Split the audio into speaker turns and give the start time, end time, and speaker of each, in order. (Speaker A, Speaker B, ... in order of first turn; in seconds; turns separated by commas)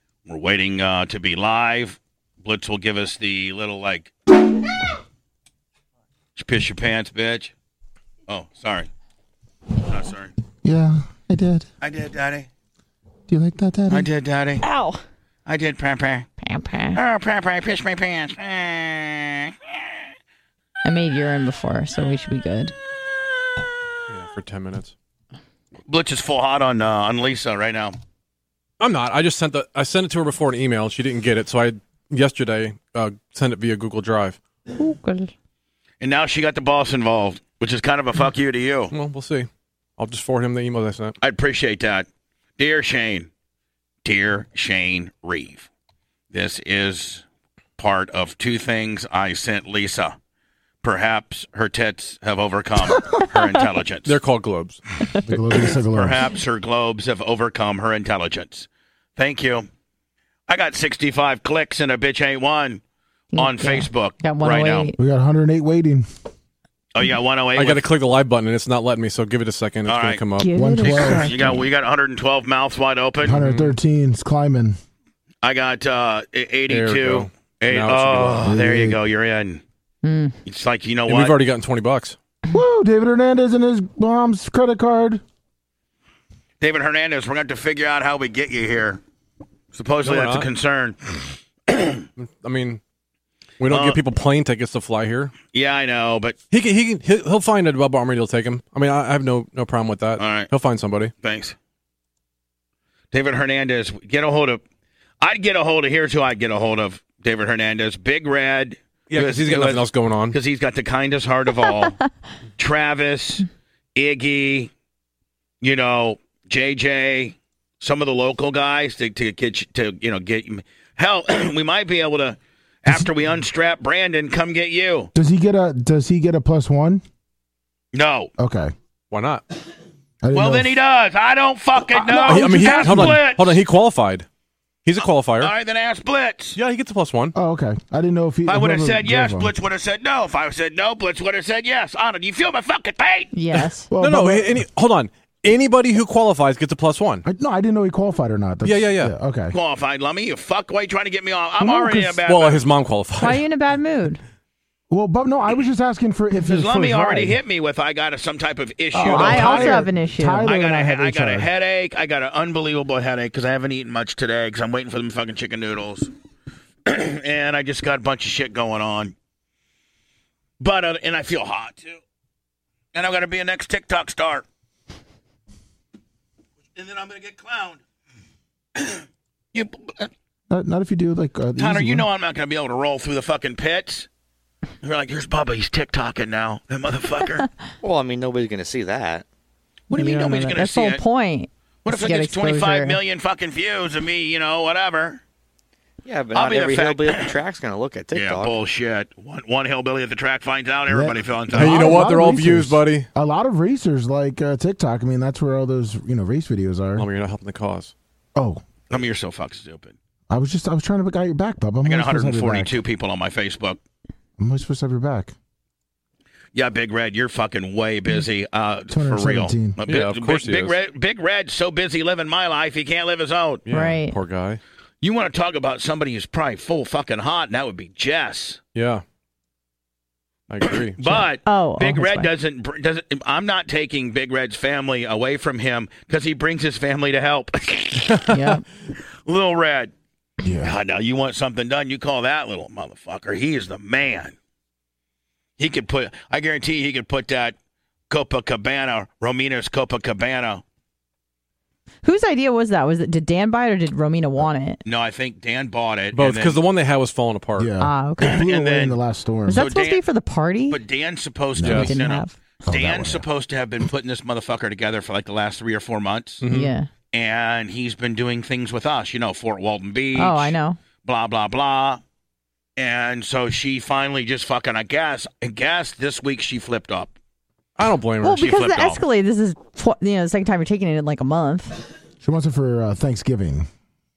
Speaker A: 0.3-4.1, Speaker A: 6.4-7.5, Speaker A: 8.3-8.9, Speaker A: 9.8-10.3, Speaker B: 10.6-11.7, Speaker A: 11.8-12.5, Speaker B: 13.3-14.1, Speaker A: 13.9-14.7, Speaker C: 14.6-15.0, Speaker A: 15.5-16.3, Speaker C: 16.4-17.0, Speaker A: 16.9-19.6, Speaker C: 20.8-22.7, Speaker D: 24.1-24.9, Speaker A: 25.9-28.0, Speaker D: 28.8-34.4, Speaker C: 34.7-35.3, Speaker A: 36.0-38.9, Speaker D: 38.9-41.1, Speaker A: 41.2-42.1, Speaker A: 42.6-43.3, Speaker A: 44.0-45.7, Speaker A: 46.3-47.2, Speaker A: 47.8-50.1, Speaker A: 50.8-54.2, Speaker D: 54.1-55.4, Speaker B: 55.3-56.3, Speaker A: 55.9-59.7, Speaker A: 60.5-62.8, Speaker C: 63.3-65.0, Speaker A: 63.4-64.9, Speaker B: 65.0-66.1, Speaker A: 66.9-67.9, Speaker D: 67.6-70.5, Speaker A: 69.8-70.2, Speaker C: 70.4-71.7, Speaker B: 70.5-71.3, Speaker A: 70.8-73.4, Speaker B: 73.2-74.8, Speaker D: 73.4-73.8, Speaker A: 75.4-79.6, Speaker D: 76.7-78.5, Speaker B: 78.4-79.0, Speaker C: 80.0-80.4, Speaker A: 80.5-81.4, Speaker D: 81.1-82.2, Speaker B: 82.5-85.2, Speaker A: 86.6-89.0, Speaker A: 89.7-92.1, Speaker D: 90.0-90.5, Speaker D: 92.2-92.8, Speaker D: 93.6-95.3, Speaker A: 93.7-94.0, Speaker A: 95.5-96.4, Speaker D: 96.5-101.1, Speaker A: 100.2-100.5, Speaker A: 101.2-101.6, Speaker A: 103.1-104.6, Speaker A: 105.2-112.0, Speaker D: 109.1-110.4, Speaker A: 112.6-114.7, Speaker A: 115.6-125.1, Speaker B: 125.2-127.0, Speaker A: 127.9-128.3, Speaker B: 128.4-128.7, Speaker D: 129.1-129.4, Speaker B: 130.2-130.8, Speaker A: 130.3-133.6, Speaker B: 131.8-133.2, Speaker D: 132.3-134.3, Speaker D: 134.8-135.5, Speaker A: 135.0-136.6, Speaker D: 136.6-137.3, Speaker B: 137.3-139.5, Speaker A: 138.5-143.3, Speaker C: 143.3-143.9, Speaker B: 143.9-144.7, Speaker D: 144.0-147.2, Speaker B: 147.2-149.6, Speaker D: 148.7-149.1, Speaker A: 149.5-152.7, Speaker B: 151.6-152.2, Speaker D: 152.3-153.4, Speaker C: 153.2-154.2, Speaker B: 154.9-157.4, Speaker A: 156.4-159.9, Speaker B: 158.9-161.5, Speaker C: 159.0-160.5, Speaker A: 160.4-166.1, Speaker A: 166.9-169.2, Speaker A: 170.6-172.0, Speaker A: 172.9-174.5, Speaker A: 176.8-177.8, Speaker A: 178.8-180.1, Speaker B: 180.5-182.1, Speaker A: 181.6-184.1, Speaker A: 184.8-187.5, Speaker E: 187.8-189.2, Speaker A: 189.9-191.0, Speaker C: 189.9-193.0, Speaker A: 191.8-195.2, Speaker E: 196.1-198.6, Speaker A: 196.3-197.3, Speaker A: 198.1-201.9, Speaker B: 200.9-207.1, Speaker D: 201.5-203.1, Speaker D: 207.0-207.9, Speaker B: 208.4-208.6, Speaker A: 208.9-210.0, Speaker B: 210.3-212.8, Speaker A: 211.8-213.8, Speaker B: 214.4-215.3, Speaker A: 216.6-223.6, Speaker B: 218.9-219.8, Speaker D: 219.9-220.8, Speaker D: 223.7-224.6, Speaker C: 223.7-224.2, Speaker A: 225.0-228.6, Speaker D: 228.8-229.0, Speaker D: 230.5-231.0, Speaker A: 231.0-238.3, Speaker C: 231.0-232.3, Speaker D: 238.2-238.6, Speaker C: 238.3-238.6, Speaker A: 239.2-239.9, Speaker B: 240.4-240.7, Speaker A: 240.6-244.3, Speaker A: 245.6-247.6, Speaker A: 248.1-250.6, Speaker C: 252.0-254.8, Speaker A: 254.8-256.6, Speaker D: 256.1-257.7, Speaker B: 257.6-259.7, Speaker C: 257.8-258.4, Speaker A: 258.2-259.0, Speaker C: 259.5-260.8, Speaker A: 259.5-260.1, Speaker A: 260.7-266.4, Speaker B: 261.6-261.9, Speaker D: 261.6-261.9, Speaker C: 261.7-262.4, Speaker B: 262.6-263.3, Speaker D: 266.4-266.7, Speaker C: 266.5-266.9, Speaker A: 267.1-272.0, Speaker C: 270.1-270.8, Speaker A: 272.8-277.1, Speaker D: 277.8-278.6, Speaker C: 278.2-281.8, Speaker A: 278.4-279.0, Speaker B: 282.2-283.7